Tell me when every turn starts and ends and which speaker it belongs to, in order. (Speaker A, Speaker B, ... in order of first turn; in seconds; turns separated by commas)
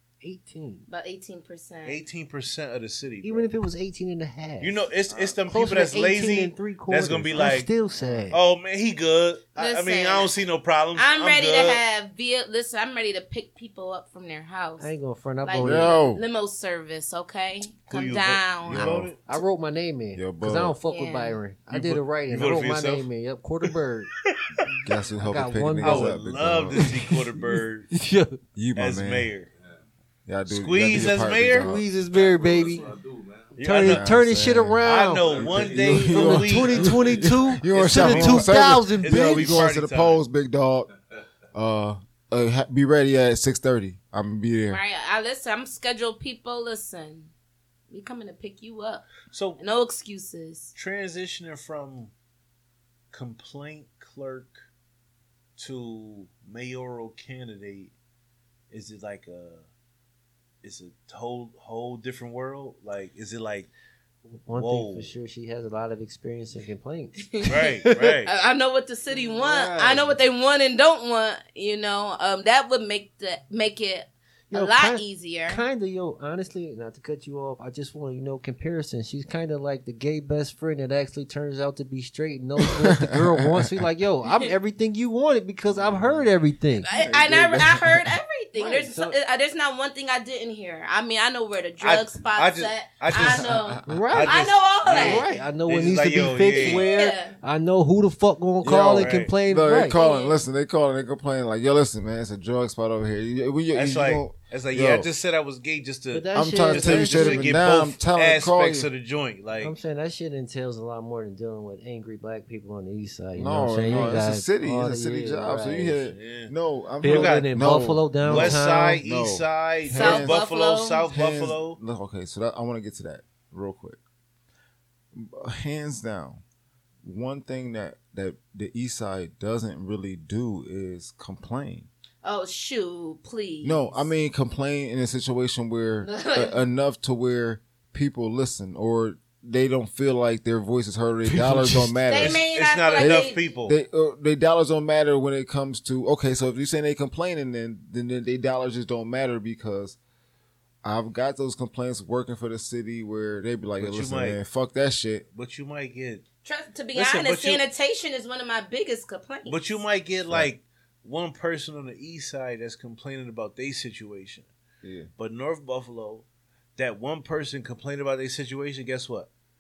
Speaker A: 0.2-0.9, Speaker B: 0.9-2.0, Speaker C: 1.9-3.5, Speaker A: 3.2-4.8, Speaker C: 4.6-7.7, Speaker D: 5.1-5.4, Speaker A: 5.5-8.4, Speaker D: 7.3-8.3, Speaker C: 8.3-11.8, Speaker B: 9.6-10.3, Speaker B: 10.9-18.9, Speaker A: 14.8-16.0, Speaker D: 15.6-16.2, Speaker C: 17.9-19.2, Speaker D: 18.7-19.1, Speaker A: 19.3-24.1, Speaker D: 20.1-20.8, Speaker B: 20.9-21.4, Speaker C: 21.7-23.1, Speaker C: 23.6-24.6, Speaker D: 24.8-26.9, Speaker A: 25.1-26.2, Speaker C: 25.8-27.9, Speaker A: 26.7-27.2, Speaker A: 27.9-28.4, Speaker D: 28.6-29.3, Speaker C: 28.8-29.5, Speaker D: 30.3-31.9, Speaker C: 30.5-31.7, Speaker A: 31.6-32.9, Speaker E: 32.1-33.6, Speaker C: 33.6-34.1, Speaker A: 33.6-39.7, Speaker D: 33.8-40.9, Speaker C: 34.8-40.2, Speaker E: 35.2-37.4, Speaker D: 41.5-44.8, Speaker B: 44.7-47.3, Speaker B: 47.9-50.7, Speaker C: 49.3-49.6, Speaker C: 50.8-52.1, Speaker C: 53.1-54.7, Speaker C: 55.6-57.9, Speaker C: 58.7-59.7, Speaker C: 60.6-63.7, Speaker A: 64.3-68.1, Speaker C: 64.5-65.1, Speaker B: 67.2-67.6, Speaker C: 67.4-68.3, Speaker B: 68.3-75.6, Speaker A: 69.1-70.2, Speaker A: 74.5-86.9, Speaker D: 82.8-83.7, Speaker C: 85.7-86.3, Speaker B: 86.8-95.3, Speaker D: 86.9-88.2, Speaker A: 88.6-89.2, Speaker C: 91.8-96.9, Speaker D: 93.1-94.3, Speaker A: 93.9-100.0, Speaker B: 96.4-97.4, Speaker D: 98.6-105.1, Speaker C: 99.0-99.3, Speaker B: 99.9-100.4, Speaker C: 103.7-109.8, Speaker A: 106.1-107.6, Speaker D: 106.3-108.9, Speaker A: 109.6-116.1, Speaker D: 113.3-120.4, Speaker C: 116.1-116.5, Speaker A: 117.0-119.0, Speaker C: 117.0-117.5, Speaker C: 118.2-121.8, Speaker B: 119.9-121.0, Speaker D: 121.0-124.0, Speaker D: 125.1-126.4, Speaker D: 127.0-131.9, Speaker B: 132.2-134.1, Speaker D: 133.6-142.4, Speaker B: 136.0-136.6, Speaker A: 141.2-142.0, Speaker B: 142.1-143.4, Speaker C: 142.2-143.8, Speaker D: 143.0-150.0, Speaker D: 150.8-155.2, Speaker C: 153.8-154.4, Speaker C: 155.3-156.2, Speaker B: 156.4-159.7, Speaker C: 156.9-157.6, Speaker C: 159.5-164.5, Speaker D: 164.8-165.1, Speaker C: 165.2-166.2, Speaker C: 166.8-169.3